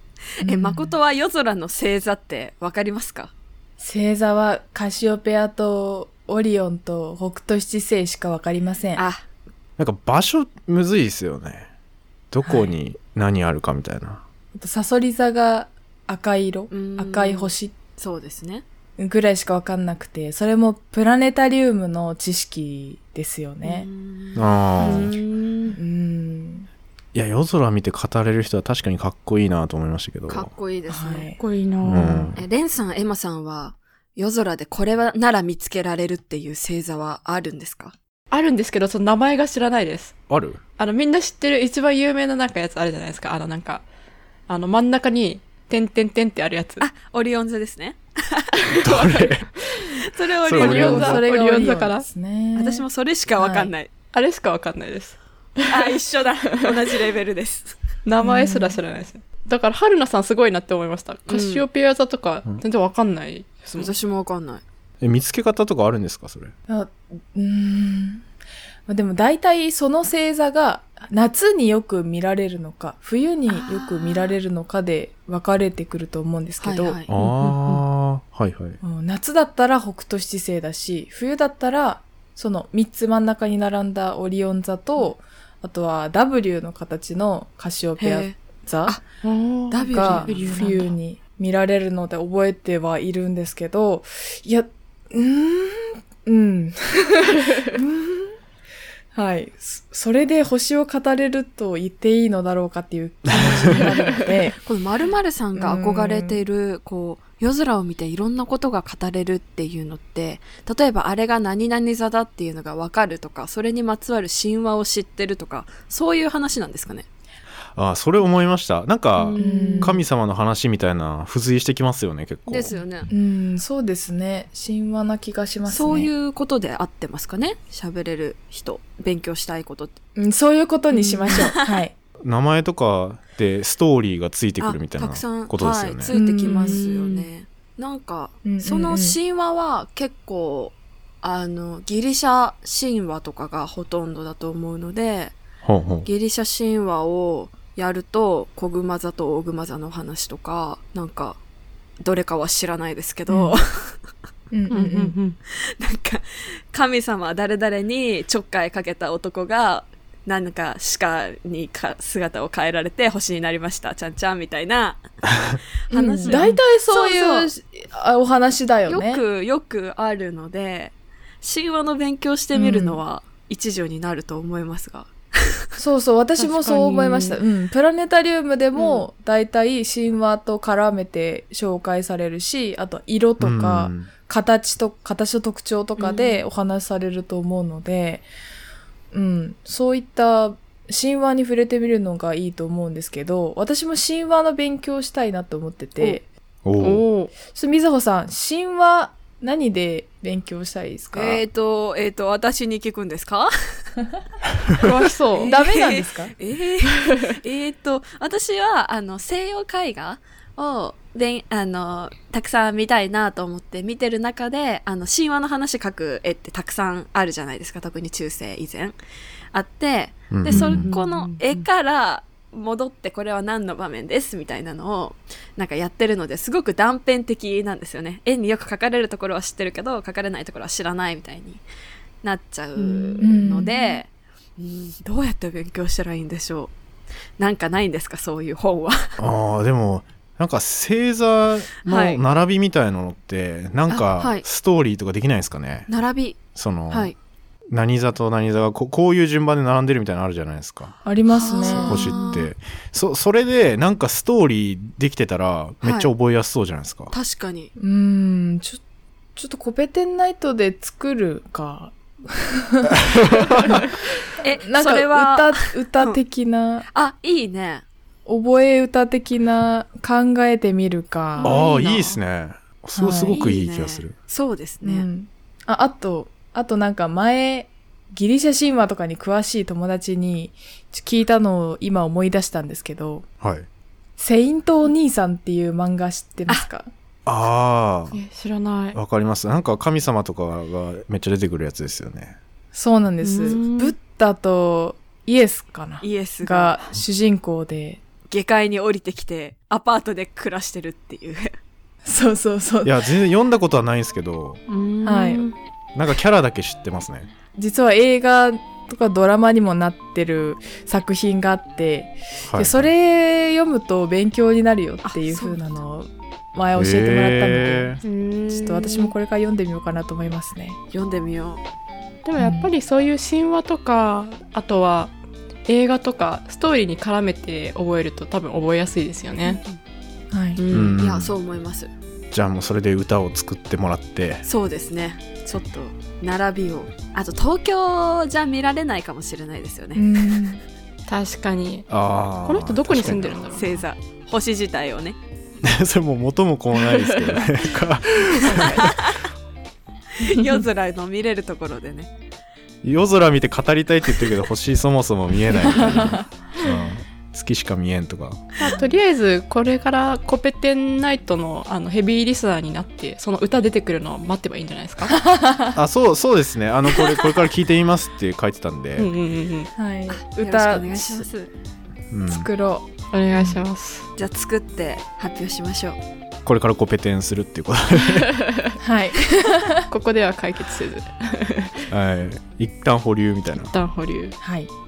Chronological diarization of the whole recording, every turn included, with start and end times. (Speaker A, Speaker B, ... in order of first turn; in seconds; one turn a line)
Speaker A: 0.4-3.3
Speaker B: 0.4-0.9
Speaker B: 3.8-9.0
Speaker A: 9.0-9.2
Speaker C: 9.8-11.7
Speaker C: 12.3-14.2
Speaker B: 12.4-12.7
Speaker B: 14.6-17.7
Speaker A: 16.7-18.6
Speaker B: 19.0-23.9
Speaker A: 23.6-25.8
Speaker C: 24.4-25.1
Speaker B: 25.7-26.7
Speaker C: 27.1-30.5
Speaker A: 30.3-31.3
Speaker B: 30.9-31.4
Speaker D: 31.4-32.3
Speaker C: 31.9-32.4
Speaker A: 32.4-37.9
Speaker D: 38.3-40.1
Speaker C: 40.3-40.6
Speaker D: 40.8-43.8
Speaker D: 44.5-46.9
Speaker A: 46.8-49.2
Speaker C: 48.8-49.5
Speaker D: 48.8-49.1
Speaker A: 50.0-51.2
Speaker C: 50.4-51.2
Speaker D: 50.6-52.0
Speaker B: 50.6-52.9
Speaker A: 52.5-53.9
Speaker B: 53.4-53.7
Speaker D: 54.1-56.0
Speaker A: 55.7-57.8
Speaker D: 58.0-63.9
Speaker B: 58.2-58.8
Speaker A: 61.3-61.6
Speaker A: 63.8-64.6
Speaker C: 65.0-66.5
Speaker B: 66.7-68.2
Speaker B: 68.9-77.0
Speaker A: 73.5-74.4
Speaker A: 76.6-77.1
Speaker C: 77.1-78.8
Speaker D: 77.2-77.8
Speaker B: 78.8-89.0
Speaker A: 88.0-89.0
Speaker D: 89.2-90.9
Speaker A: 89.7-90.7
Speaker B: 89.8-98.3
Speaker B: 99.1-104.6
Speaker C: 103.3-103.9
Speaker A: 104.7-117.1
Speaker B: 105.6-106.4
Speaker C: 117.8-122.8
Speaker A: 119.2-119.5
Speaker D: 119.4-119.9
Speaker B: 119.4-120.0
Speaker A: 122.5-123.1
Speaker B: 123.1-126.1
Speaker A: 125.7-130.0
Speaker B: 130.2-131.9
Speaker D: 130.9-131.3
Speaker A: 131.3-131.7
Speaker C: 132.2-136.1
Speaker A: 134.6-145.4
Speaker B: 136.1-136.8
Speaker D: 136.4-137.3
Speaker B: 138.4-139.2
Speaker C: 145.6-146.1
Speaker A: 146.1-151.4
Speaker A: 152.0-154.0
Speaker B: 154.5-155.2
Speaker D: 154.7-155.4
Speaker A: 155.5-165.1
Speaker A: 165.9-167.5
Speaker B: 165.9-169.2
Speaker D: 166.2-166.6
Speaker A: 168.9-175.6
Speaker B: 172.5-173.0
Speaker B: 175.8-188.3
Speaker D: 176.4-177.4
Speaker A: 178.8-179.0
Speaker C: 183.4-184.1
Speaker D: 186.0-186.4
Speaker B: 189.1-196.2
Speaker C: 196.7-197.1
Speaker D: 196.8-197.3
Speaker B: 197.4-201.4
Speaker A: 201.1-203.5
Speaker D: 204.8-205.6
Speaker A: 205.3-219.0
Speaker B: 205.5-206.3
Speaker A: 219.5-231.6
Speaker C: 220.3-220.9
Speaker D: 220.5-221.6
Speaker A: 232.2-236.7
Speaker D: 232.8-233.4
Speaker B: 233.2-233.9
Speaker A: 237.4-239.1
Speaker C: 239.2-245.9
Speaker A: 241.8-242.2
Speaker A: 243.9-244.4
Speaker A: 245.9-247.2
Speaker C: 246.6-247.1
Speaker C: 247.7-250.9
Speaker B: 251.0-252.1
Speaker A: 251.3-252.5
Speaker D: 251.7-252.1
Speaker C: 251.8-257.1
Speaker A: 255.8-256.1
Speaker A: 257.1-257.7
Speaker B: 257.8-258.8
Speaker B: 259.4-263.9
Speaker C: 262.9-263.9
Speaker A: 264.4-266.2
Speaker B: 264.6-266.9
Speaker A: 266.9-267.8
Speaker B: 268.3-271.7
Speaker A: 271.4-272.1
Speaker C: 271.4-274.1
Speaker B: 273.0-273.4
Speaker A: 273.3-275.1
Speaker B: 274.8-283.3
Speaker C: 283.4-283.7
Speaker B: 284.2-286.9
Speaker C: 287.3-288.2
Speaker D: 288.1-289.0
Speaker C: 288.9-292.4
Speaker B: 292.7-298.0
Speaker D: 293.2-294.0
Speaker A: 296.0-296.9
Speaker A: 298.3-301.5
Speaker B: 302.1-303.0
Speaker C: 302.8-304.6
Speaker D: 304.7-305.6
Speaker B: 305.0-305.4
Speaker C: 305.9-307.3
Speaker B: 307.6-320.8
Speaker C: 312.4-312.9
Speaker A: 315.0-315.6
Speaker C: 316.8-318.0
Speaker D: 318.0-319.1
Speaker A: 320.9-321.6
Speaker D: 322.2-325.1
Speaker B: 322.4-322.7
Speaker D: 325.7-329.6
Speaker B: 330.3-330.6
Speaker D: 330.6-331.0
Speaker C: 330.7-331.4
Speaker A: 331.0-331.9
Speaker C: 332.3-334.4
Speaker A: 334.4-340.5
Speaker B: 339.9-340.6
Speaker D: 341.1-341.9
Speaker C: 341.9-343.5
Speaker D: 342.4-343.8
Speaker A: 343.5-345.2
Speaker C: 345.6-349.0
Speaker D: 346.9-347.4
Speaker D: 348.4-348.9
Speaker A: 348.8-349.1
Speaker A: 350.2-352.1
Speaker C: 352.8-358.4
Speaker B: 355.7-356.2
Speaker D: 358.6-365.2
Speaker B: 365.2-365.8
Speaker C: 365.8-369.1
Speaker D: 369.0-369.7
Speaker B: 369.8-371.3
Speaker A: 370.1-371.5
Speaker C: 372.1-372.5
Speaker B: 372.3-373.6
Speaker D: 373.1-374.1
Speaker A: 374.2-376.0
Speaker C: 376.4-378.3
Speaker D: 378.3-378.8
Speaker B: 378.8-379.9
Speaker D: 379.9-381.9
Speaker C: 381.9-383.7
Speaker D: 383.6-384.4
Speaker B: 384.4-384.7